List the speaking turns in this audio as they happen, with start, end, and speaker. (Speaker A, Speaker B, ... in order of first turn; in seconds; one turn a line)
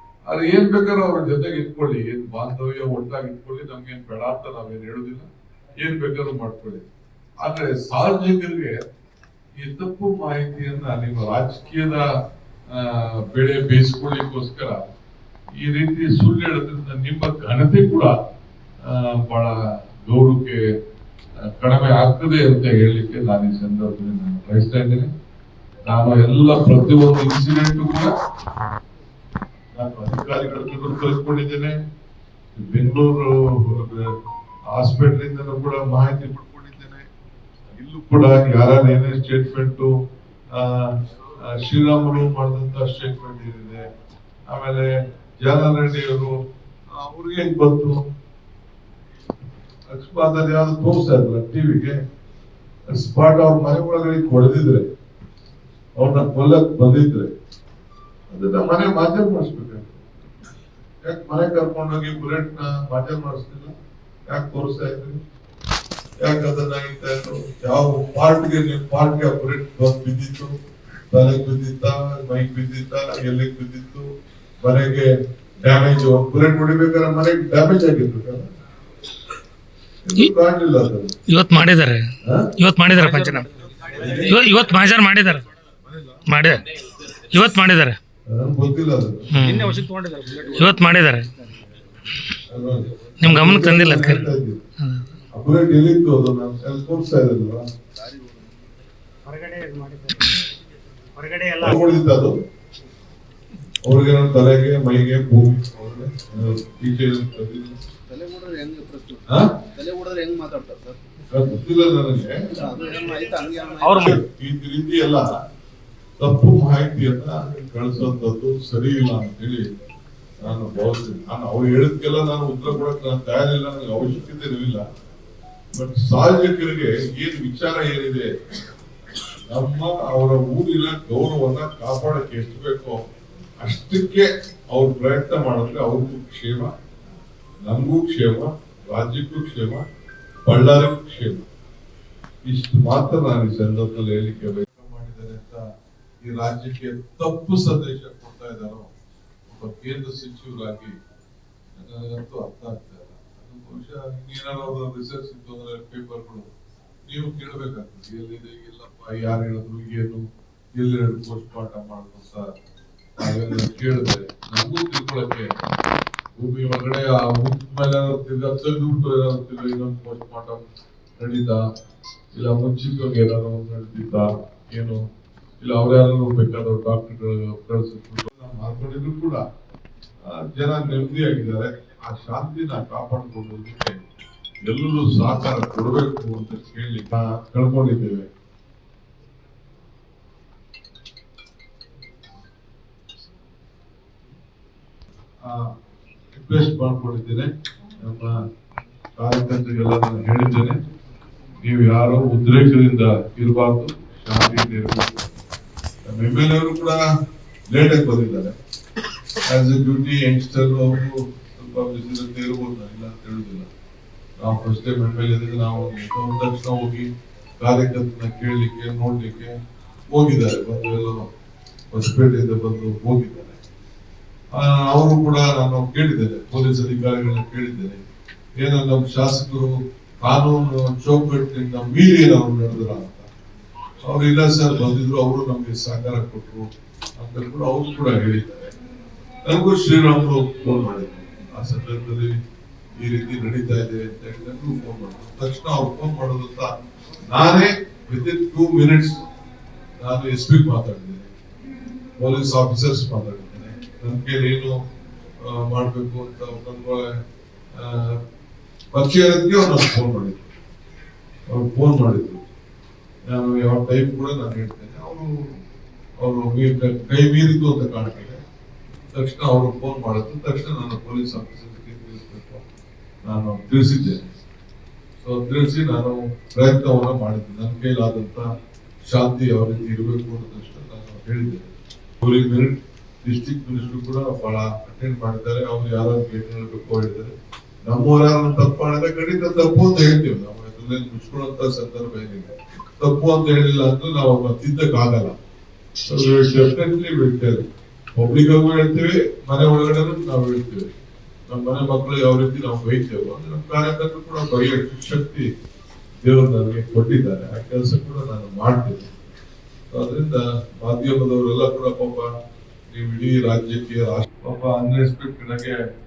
Speaker A: 0.3-5.3
Speaker A: 5.8-6.9
Speaker A: 7.4-8.8
Speaker A: 9.6-12.1
Speaker A: 12.7-14.9
Speaker A: 15.6-18.2
Speaker A: 18.8-19.5
Speaker A: 20.1-20.6
Speaker A: 21.4-25.1
Speaker A: 25.9-28.1
Speaker A: 29.7-31.8
Speaker A: 32.5-34.1
Speaker A: 34.7-37.0
Speaker A: 37.7-39.9
Speaker A: 40.5-43.8
Speaker A: 44.5-46.3
Speaker A: 46.9-48.0
Speaker A: 49.9-52.0
Speaker A: 52.9-54.9
Speaker A: 56.0-57.3
Speaker A: 58.3-60.0
Speaker A: 61.0-63.7
Speaker A: 64.3-65.2
Speaker A: 66.2-70.5
Speaker A: 71.1-74.1
Speaker A: 74.6-75.1
Speaker A: 75.6-78.5
Speaker A: 80.0-81.1
Speaker B: 81.3-83.5
Speaker A: 82.2-82.5
Speaker C: 83.0-83.3
Speaker D: 83.7-84.1
Speaker A: 84.0-84.5
Speaker B: 84.1-85.4
Speaker A: 85.8-86.2
Speaker B: 86.3-88.0
Speaker A: 88.3-89.5
Speaker B: 89.3-89.9
Speaker D: 89.4-90.8
Speaker C: 89.5-90.7
Speaker B: 90.5-91.3
Speaker A: 92.5-94.6
Speaker B: 93.2-94.3
Speaker B: 94.8-95.2
Speaker A: 95.3-97.6
Speaker D: 97.9-98.7
Speaker C: 99.3-100.3
Speaker C: 101.2-101.7
Speaker A: 101.6-102.4
Speaker A: 103.8-107.8
Speaker D: 108.1-111.0
Speaker A: 109.3-109.5
Speaker A: 111.3-112.6
Speaker D: 112.5-114.2
Speaker B: 113.8-114.2
Speaker A: 113.9-115.3
Speaker A: 116.2-119.7
Speaker A: 120.4-124.8
Speaker A: 125.7-128.3
Speaker A: 129.5-133.0
Speaker A: 133.6-136.7
Speaker A: 137.7-139.8
Speaker A: 140.4-141.4
Speaker A: 142.4-145.6
Speaker A: 146.2-148.9
Speaker A: 149.5-150.9
Speaker A: 151.8-156.5
Speaker A: 157.1-162.5
Speaker A: 163.2-165.5
Speaker A: 166.4-170.6
Speaker A: 171.2-171.6
Speaker A: 172.3-175.0
Speaker A: 175.6-179.4
Speaker A: 180.2-184.0
Speaker A: 184.6-188.3
Speaker A: 195.4-195.7
Speaker A: 196.3-198.3
Speaker A: 199.2-200.8
Speaker A: 201.6-205.2
Speaker A: 206.1-207.0
Speaker A: 207.7-208.5
Speaker A: 209.5-213.7
Speaker A: 214.4-217.1
Speaker A: 217.6-219.5
Speaker A: 220.1-221.2
Speaker A: 221.9-223.6
Speaker A: 224.5-228.0
Speaker A: 228.6-233.3
Speaker A: 234.0-238.7
Speaker A: 239.4-242.4
Speaker A: 243.0-246.7
Speaker A: 247.3-249.2
Speaker A: 250.0-251.3
Speaker A: 252.2-254.8
Speaker A: 255.4-257.1
Speaker A: 257.8-258.2
Speaker A: 258.9-260.5
Speaker A: 261.5-262.4
Speaker A: 263.3-265.3
Speaker A: 266.2-268.4
Speaker A: 269.1-272.6
Speaker A: 273.2-274.3
Speaker A: 275.2-278.5
Speaker A: 279.0-281.7
Speaker A: 282.2-287.3
Speaker A: 287.8-295.3
Speaker A: 296.1-297.6
Speaker A: 298.1-300.9
Speaker A: 301.5-305.5
Speaker A: 306.2-309.1
Speaker A: 309.9-312.3
Speaker A: 312.9-315.8